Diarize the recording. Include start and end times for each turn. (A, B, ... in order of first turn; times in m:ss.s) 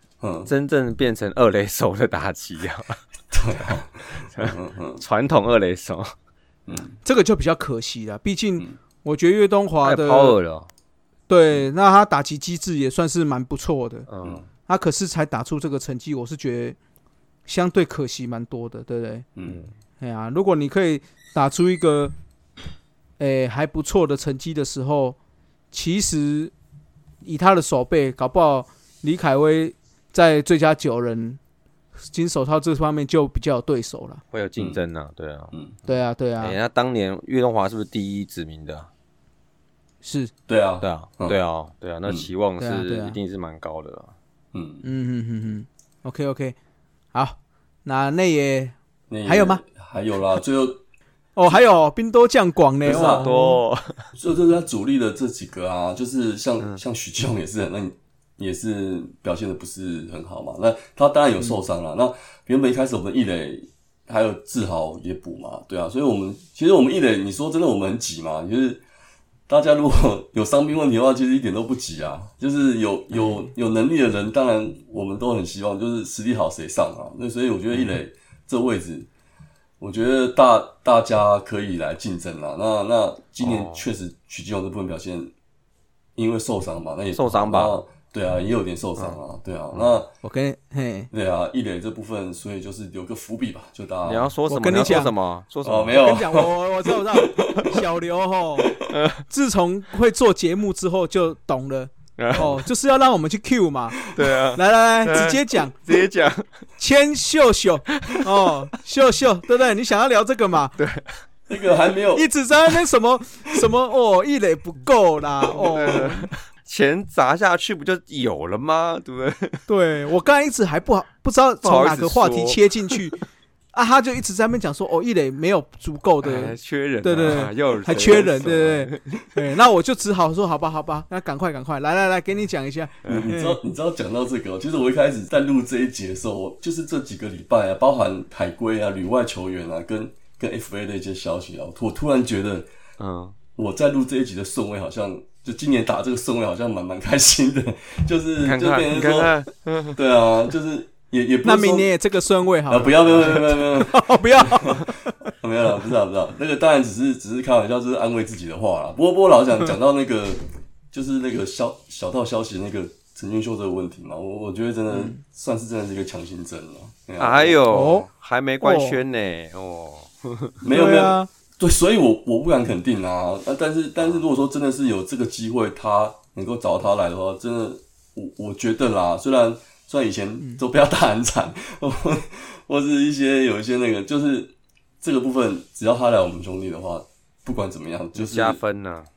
0:00.2-0:00.5 A
0:00.5-0:03.0 B
0:03.3-0:05.0 A
0:04.2-0:06.1 B
0:06.6-0:06.9 A
0:07.0-0:10.4 C
0:09.8-0:10.7 B
0:11.3-0:14.1 C
0:14.1-0:14.4 B
0:14.7-0:16.8 C
0:17.5-0:19.2 C
0:19.4-0:19.6 A
0:20.0-0:22.1 C
0:23.2-0:25.2 C
0:25.7-0:26.5 C
0:27.2-0:31.4 C
0:32.1-0:34.2 C
0:34.3-0:35.5 B
0:35.8-0:36.6 C
0:36.4-0:38.9 B
0:40.0-0:40.3 C
0:40.5-0:41.4 A
0:40.8-0:44.1 B
0:42.6-0:43.2 C
0:44.5-0:44.8 A
0:44.8-0:46.6 C
0:47.1-0:49.6 C
0:49.1-0:50.8 A
0:51.4-0:53.6 C
0:52.8-0:53.3 A
0:52.8-0:54.1 B
0:54.1-1:08.8 A
1:09.5-1:19.1 A
1:19.8-1:25.3 A
1:23.4-1:23.8 B
1:26.2-1:30.1 A
1:27.1-1:27.8 B
1:30.2-1:31.1 C
1:31.1-1:34.3 A
1:34.0-1:36.0 B
1:34.5-1:35.1 C
1:35.6-1:36.5 A
1:36.0-1:38.7 C
1:37.2-1:37.8 A
1:38.9-1:39.2 B
1:39.3-1:44.0 C
1:42.2-1:42.5 B
1:44.1-1:46.4 B
1:44.5-1:45.7 C
1:46.8-1:50.8 C
1:50.8-1:51.2 B
1:51.5-1:52.2 A
1:52.1-1:56.3 C
1:55.5-1:59.6 B
1:59.7-2:03.2 C
2:01.6-2:03.0 B
2:03.7-2:13.6 C
2:06.2-2:09.3 B
2:13.0-2:22.7 A
2:23.0-2:23.4 B
2:23.5-2:29.3 A
2:28.4-2:30.0 B
2:29.9-2:31.9 A
2:31.4-2:35.3 C
2:32.7-2:47.6 A
2:44.9-2:45.2 C
2:47.2-2:50.6 B
2:47.7-2:48.1 C
2:48.6-2:49.0 C
2:50.6-3:08.6 A
2:50.7-2:51.3 C
3:08.1-3:09.1 B